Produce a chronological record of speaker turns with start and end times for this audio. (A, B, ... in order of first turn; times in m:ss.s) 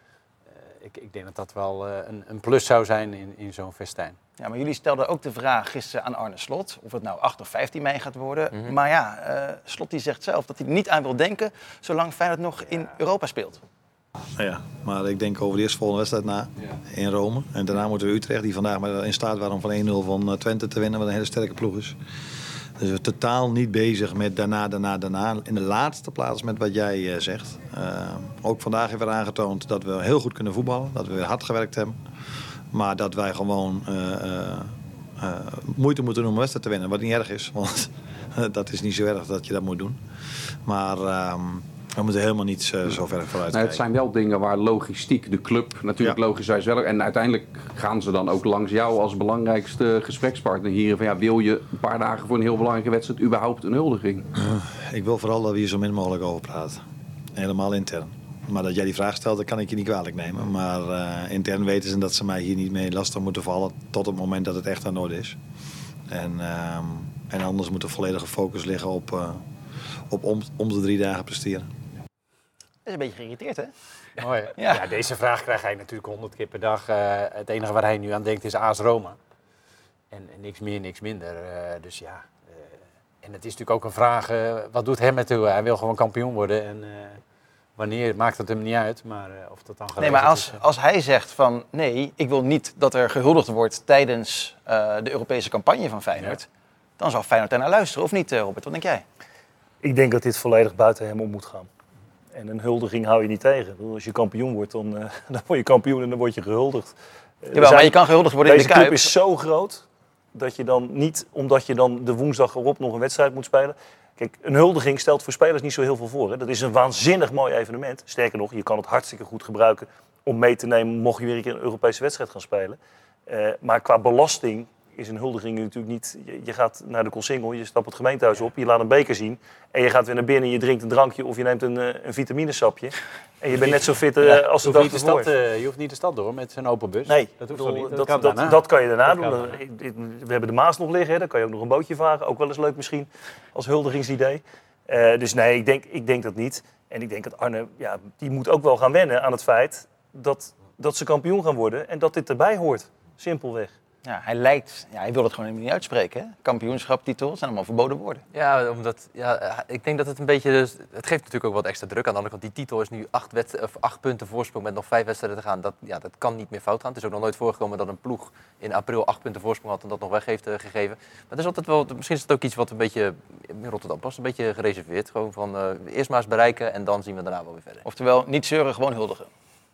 0:00.6-0:04.2 A
0:04.4-0:13.6 B
0:14.4-0:22.0 C
0:22.8-0:32.0 C
0:32.7-0:40.0 C
0:40.6-0:43.8 C
0:43.5-0:54.3 D
0:54.4-0:56.8 C
0:57.4-1:05.4 C
1:06.1-1:09.4 C
1:10.1-1:11.7 C
1:12.8-1:13.7 B
1:14.2-1:19.2 A
1:14.6-1:14.8 B
1:20.1-1:27.2 A
1:27.8-1:30.6 A
1:30.0-1:36.4 B
1:37.0-1:39.0 B
1:39.8-1:41.7 E
1:42.3-2:15.3 E
1:47.5-1:49.1 B
2:13.6-2:19.5 A
2:17.1-2:33.7 E
2:34.0-2:38.2 B
2:38.3-2:57.8 F
2:57.8-2:59.3 B